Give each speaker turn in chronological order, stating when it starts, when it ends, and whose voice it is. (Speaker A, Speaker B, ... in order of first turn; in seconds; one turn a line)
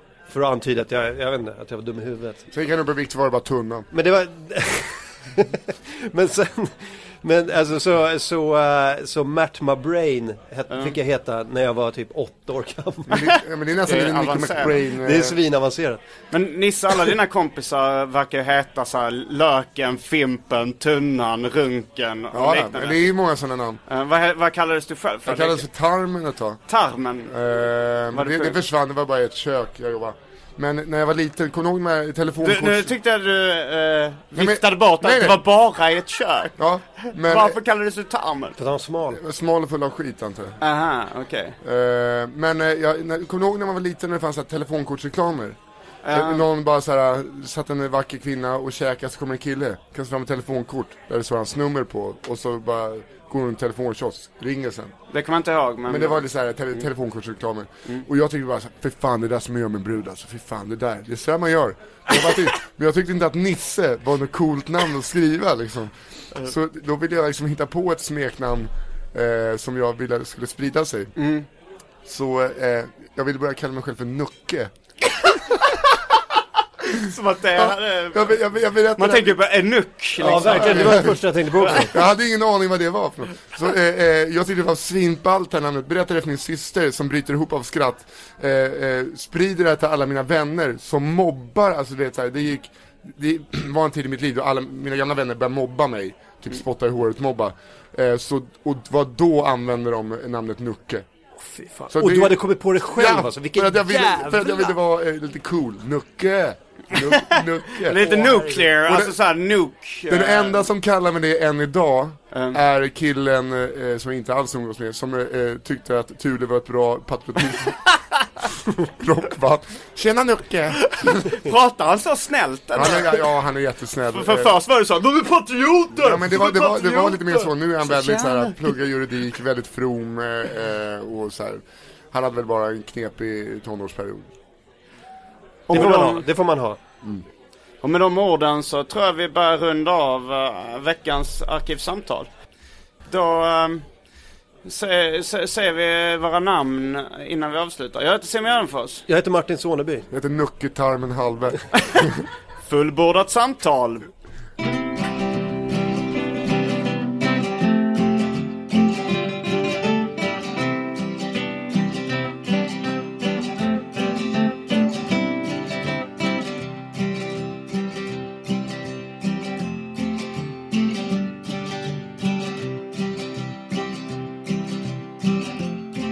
Speaker A: 0.3-2.5
Speaker B: 2.5-3.9
Speaker A: 3.9-13.2
Speaker C: 10.7-11.0
Speaker B: 13.1-15.4
Speaker C: 13.1-14.8
Speaker A: 14.9-16.0
Speaker C: 16.3-23.0
Speaker B: 22.3-23.8
Speaker C: 23.9-25.6
Speaker B: 25.2-26.6
Speaker C: 26.7-27.3
Speaker B: 27.3-32.9
Speaker C: 28.1-28.6
Speaker C: 32.4-38.6
Speaker B: 34.3-35.4
Speaker B: 36.6-37.6
Speaker A: 38.6-39.2
Speaker B: 39.1-40.6
Speaker C: 40.6-41.6
Speaker B: 41.6-45.6
Speaker C: 46.0-46.4
Speaker B: 46.1-54.9
Speaker C: 55.1-56.3
Speaker B: 55.9-71.1
Speaker C: 71.2-71.5
Speaker B: 72.0-74.7
Speaker C: 76.9-78.4
Speaker B: 77.6-79.3
Speaker C: 79.0-81.9
Speaker A: 80.2-81.9
Speaker B: 80.2-81.2
Speaker B: 81.8-101.0
Speaker A: 101.4-104.8
Speaker B: 101.9-108.0
Speaker C: 106.9-110.7
Speaker A: 108.0-108.8
Speaker B: 108.7-109.1
Speaker B: 110.1-117.8
Speaker C: 112.3-112.6
Speaker B: 118.7-121.3
Speaker C: 120.8-123.3
Speaker B: 122.7-124.6
Speaker C: 124.1-128.8
Speaker B: 125.9-134.3
Speaker C: 135.7-136.3
Speaker A: 135.7-136.8
Speaker C: 137.8-142.3
Speaker C: 143.1-143.8
Speaker C: 144.6-149.1
Speaker A: 149.1-150.1
Speaker B: 150.1-152.2
Speaker C: 151.8-152.1
Speaker C: 152.6-154.1